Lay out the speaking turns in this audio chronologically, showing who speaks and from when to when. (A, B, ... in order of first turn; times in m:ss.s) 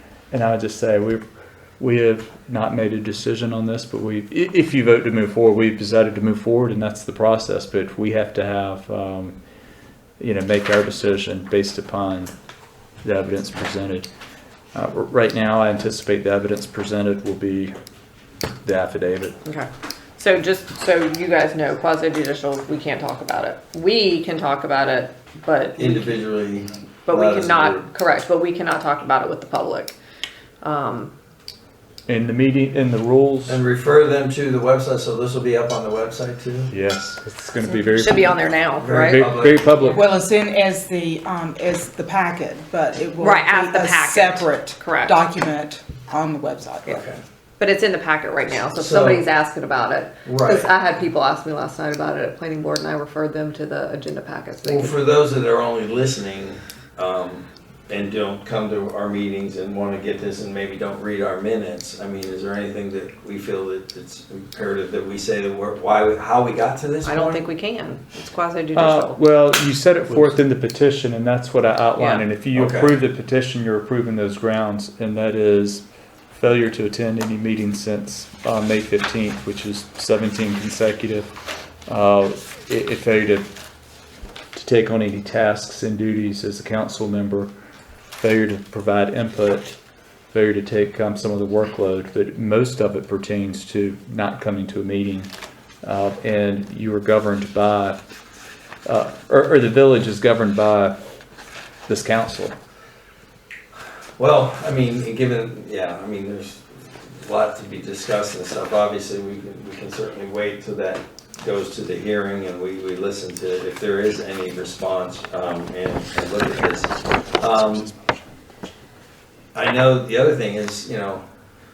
0:00.3-0:01.2 A
0:01.8-0:09.4 A
0:10.2-0:12.3 A
0:13.0-0:14.1 A
0:14.7-0:17.8 A
0:18.6-0:19.4 A
0:19.4-0:26.2 B
0:25.8-0:27.9 C
0:27.1-0:30.0 B
0:30.6-0:31.1 B
0:32.1-0:33.6 A
0:33.5-0:36.7 C
0:36.7-0:40.1 A
0:37.6-0:39.4 B
0:38.8-0:40.0 C
0:39.9-0:47.0 D
0:43.2-0:45.2 B
0:46.9-0:47.2 C
0:47.6-0:55.0 B
0:48.7-0:49.2 C
0:50.2-0:50.7 C
0:54.6-1:07.5 C
1:07.0-1:09.2 B
1:08.7-1:21.3 A
1:12.0-1:12.3 B
1:12.5-1:13.0 C
1:21.9-1:23.5 A
1:24.6-1:27.5 A
1:28.2-1:29.8 A
1:30.3-1:35.3 A
1:35.8-1:38.0 A
1:38.8-1:41.0 A
1:41.9-1:42.6 A
1:44.2-1:57.9 C
1:59.5-2:01.2 C